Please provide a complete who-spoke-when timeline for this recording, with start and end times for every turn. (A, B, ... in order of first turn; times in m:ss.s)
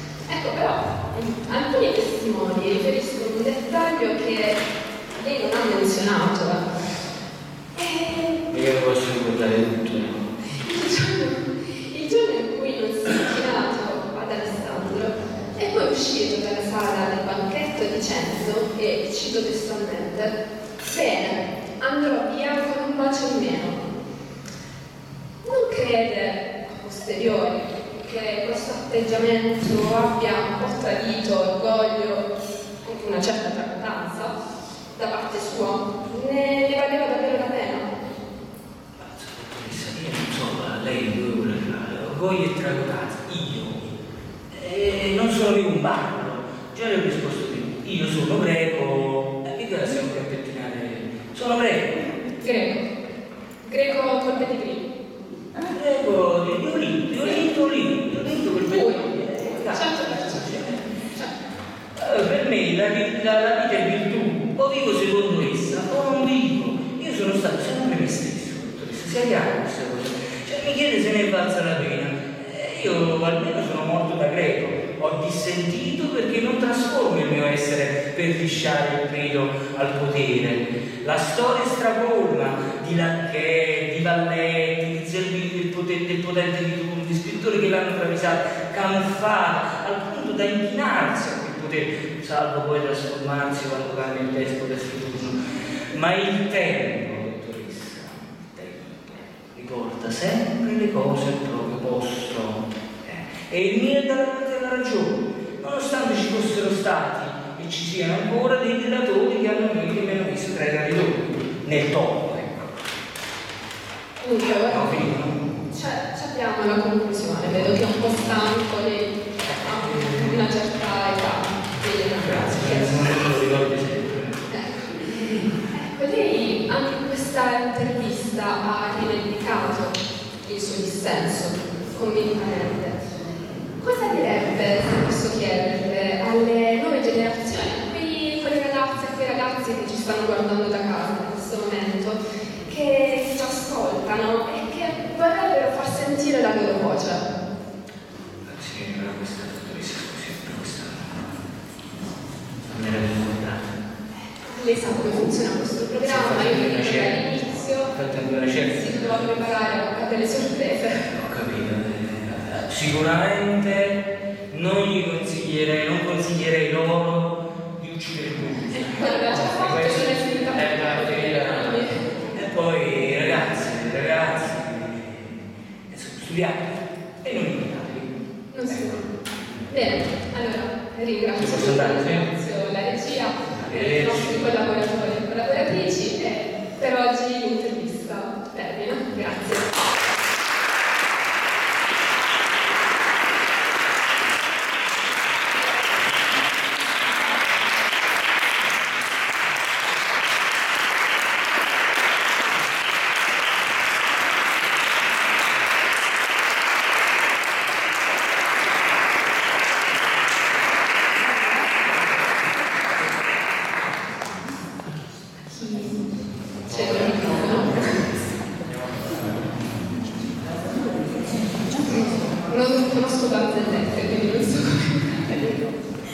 0:00.3-0:04.6 A
0:05.2-0:06.6 A
0:07.8-0:08.4 A
0:08.5-0:10.4 B
0:10.5-0:23.8 A
0:25.4-0:32.3 A
0:32.8-0:34.3 A
0:35.0-0:37.9 A
0:39.0-0:43.9 B
0:44.5-0:52.1 B
0:52.4-0:52.9 A
0:53.6-0:54.9 A
0:55.6-1:00.8 B
0:58.7-1:00.6 A
1:02.0-1:52.8 B
1:54.2-1:55.0 A
1:54.5-1:55.4 B
1:55.7-2:03.3 A
1:59.4-2:00.5 B
2:02.2-2:04.4 B
2:04.5-2:13.0 A
2:13.8-2:27.2 A
2:28.5-2:31.4 B
2:32.7-2:33.6 B
2:34.5-2:38.0 A
2:36.0-2:37.3 B
2:37.8-2:39.6 B
2:38.6-2:41.0 A
2:41.0-2:58.2 B
2:48.8-2:52.1 A
2:58.5-2:59.0 A
2:58.7-2:59.7 B
2:59.7-3:09.7 A
3:01.4-3:02.3 B
3:03.5-3:04.7 B
3:35.5-3:36.0 A
3:36.7-3:38.1 A
3:41.8-3:45.4 A